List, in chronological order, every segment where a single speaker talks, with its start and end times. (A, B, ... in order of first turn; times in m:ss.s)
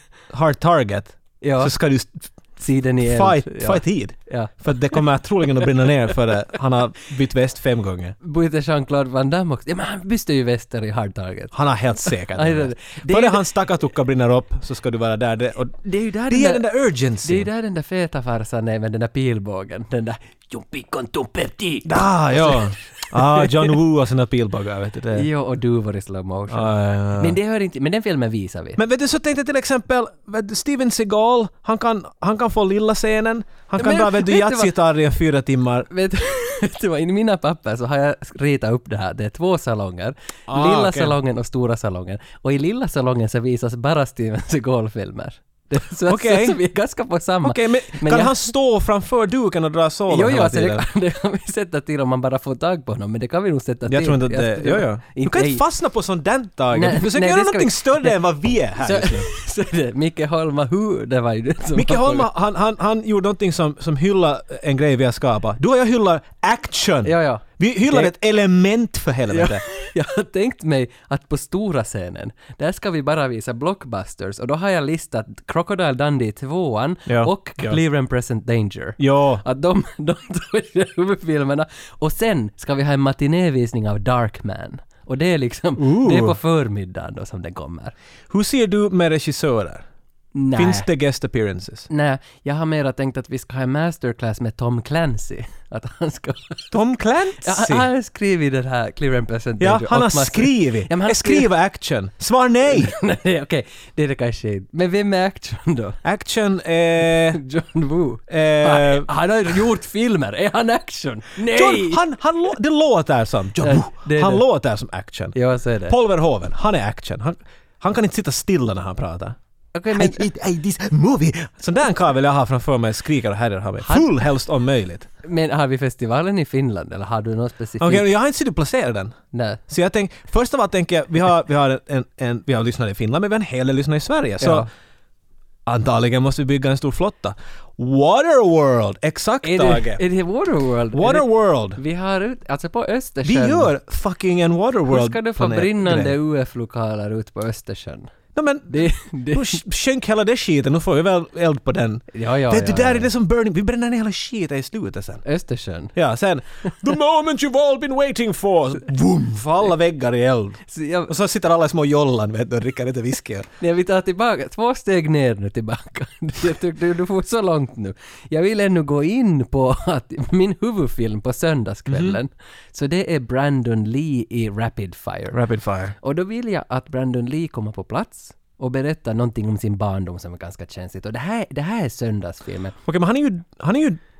0:00.3-0:02.3 A
0:01.4-0:01.7 B
0:02.6-0:05.0 B
0:03.0-0:08.2 A
0:08.2-0:13.5 B
0:11.5-0:17.5 A
0:15.8-0:16.7 B
0:17.2-0:23.7 B
0:21.8-0:25.3 A
0:25.1-0:28.8 B
0:26.5-0:27.4 A
0:28.8-0:35.9 A
0:33.8-0:34.7 B
0:35.9-0:48.3 B
0:40.5-0:41.2 A
0:46.1-0:46.6 A
0:47.4-0:50.8 A
0:50.1-0:55.6 B
0:53.8-0:59.3 A
0:56.7-0:58.2 B
0:58.8-1:02.3 B
1:01.7-1:09.6 A
1:07.0-1:08.1 B
1:09.3-1:27.9 B
1:17.1-1:17.8 A
1:19.0-1:19.4 A
1:25.8-1:26.4 A
1:28.3-1:29.8 A
1:30.3-1:30.9 B
1:30.5-1:31.9 A
1:31.9-1:36.8 B
1:36.7-1:37.9 A
1:37.4-1:41.5 B
1:39.6-1:43.0 A
1:42.7-1:46.0 B
1:46.0-1:47.4 A
1:47.3-1:52.0 B
1:48.3-1:49.1 A
1:51.5-1:55.4 A
1:53.6-1:54.4 B
1:55.3-1:56.0 B
1:55.9-1:59.4 A
1:59.7-2:00.3 B
1:59.9-2:05.1 A
2:05.2-2:08.1 B
2:07.8-2:14.7 A
2:09.3-2:09.6 B
2:14.4-2:14.7 B
2:15.6-2:20.0 A
2:19.4-2:23.7 B
2:20.9-2:21.8 A
2:23.2-2:26.1 A
2:24.9-2:28.1 B
2:28.3-2:35.2 A
2:28.7-2:29.6 B
2:32.1-2:33.1 B
2:35.2-2:35.9 B
2:35.9-2:43.5 A
2:40.7-2:41.1 B
2:43.6-2:55.4 B
2:51.9-2:52.2 A
2:55.3-2:55.9 A
2:56.0-3:02.8 B
3:02.8-3:04.0 A